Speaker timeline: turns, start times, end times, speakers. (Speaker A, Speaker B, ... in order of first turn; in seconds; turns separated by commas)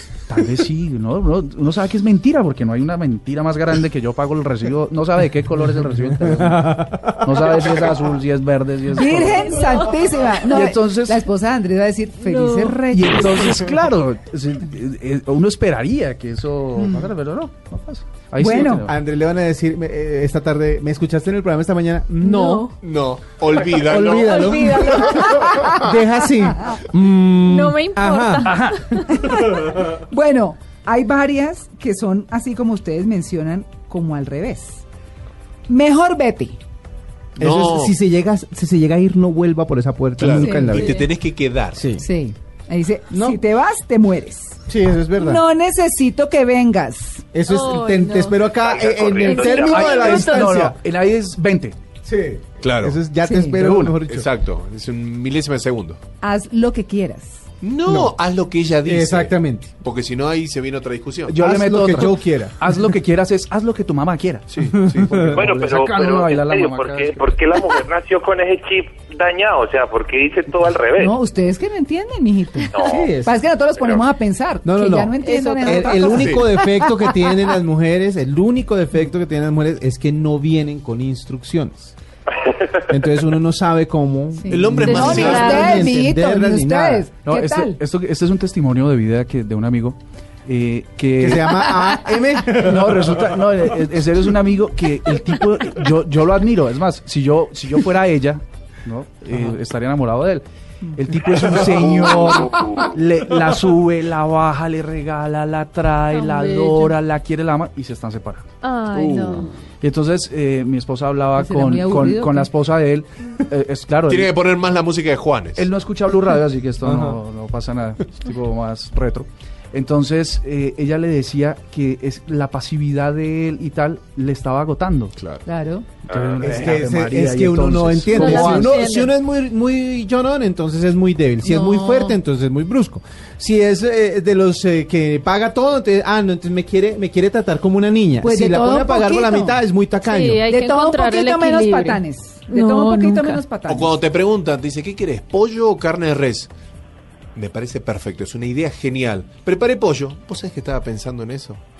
Speaker A: 0.3-11.2, Speaker B: 6.4-7.2, Speaker C: 8.9-13.6, Speaker D: 12.2-12.8, Speaker A: 12.9-18.9, Speaker C: 16.8-17.0, Speaker C: 18.4-18.9, Speaker B: 18.8-22.7, Speaker D: 22.2-22.7, Speaker E: 22.9-25.0, Speaker B: 23.7-28.5, Speaker D: 24.1-25.2, Speaker C: 24.4-25.8, Speaker D: 27.4-29.2, Speaker A: 28.4-28.9, Speaker C: 29.1-34.8, Speaker C: 35.7-36.6, Speaker E: 37.4-38.0, Speaker B: 37.4-41.0, Speaker E: 40.2-41.9, Speaker C: 40.2-41.1, Speaker B: 41.7-42.0, Speaker C: 42.0-44.6, Speaker B: 43.1-43.4, Speaker B: 44.7-45.4, Speaker C: 45.2-47.3, Speaker B: 47.3-50.8, Speaker D: 47.4-48.4, Speaker F: 48.6-50.0, Speaker D: 49.2-50.5, Speaker A: 49.5-51.8, Speaker B: 52.0-54.3, Speaker E: 52.6-53.0, Speaker C: 53.2-53.7, Speaker A: 53.5-54.0, Speaker E: 54.1-56.0, Speaker C: 56.2-57.5, Speaker E: 57.6-61.4, Speaker B: 58.8-59.7, Speaker A: 61.3-67.2, Speaker B: 61.3-62.7, Speaker B: 64.6-65.4, Speaker E: 64.7-65.3, Speaker F: 65.3-71.1, Speaker C: 71.0-77.2, Speaker F: 72.7-73.1, Speaker B: 72.8-73.3, Speaker F: 73.8-74.0, Speaker B: 74.6-81.9, Speaker D: 75.2-76.4, Speaker E: 76.1-76.4, Speaker B: 82.9-87.1, Speaker C: 84.3-87.8, Speaker E: 84.5-85.8, Speaker D: 84.8-85.7, Speaker A: 87.2-91.8, Speaker B: 91.2-93.3, Speaker A: 92.5-108.5, Speaker F: 101.8-102.9, Speaker D: 106.1-107.0, Speaker D: 108.6-109.5, Speaker E: 108.9-109.5, Speaker A: 109.8-114.3, Speaker C: 111.4-112.5, Speaker E: 114.1-115.6, Speaker A: 115.5-125.1, Speaker B: 116.8-117.2, Speaker C: 125.4-125.8, Speaker F: 126.1-126.5, Speaker A: 126.1-128.8, Speaker B: 126.4-140.5, Speaker D: 128.1-129.1, Speaker C: 131.4-132.1, Speaker C: 138.2-139.6, Speaker D: 140.0-143.5, Speaker C: 140.4-144.0, Speaker E: 143.7-146.5, Speaker E: 147.3-151.6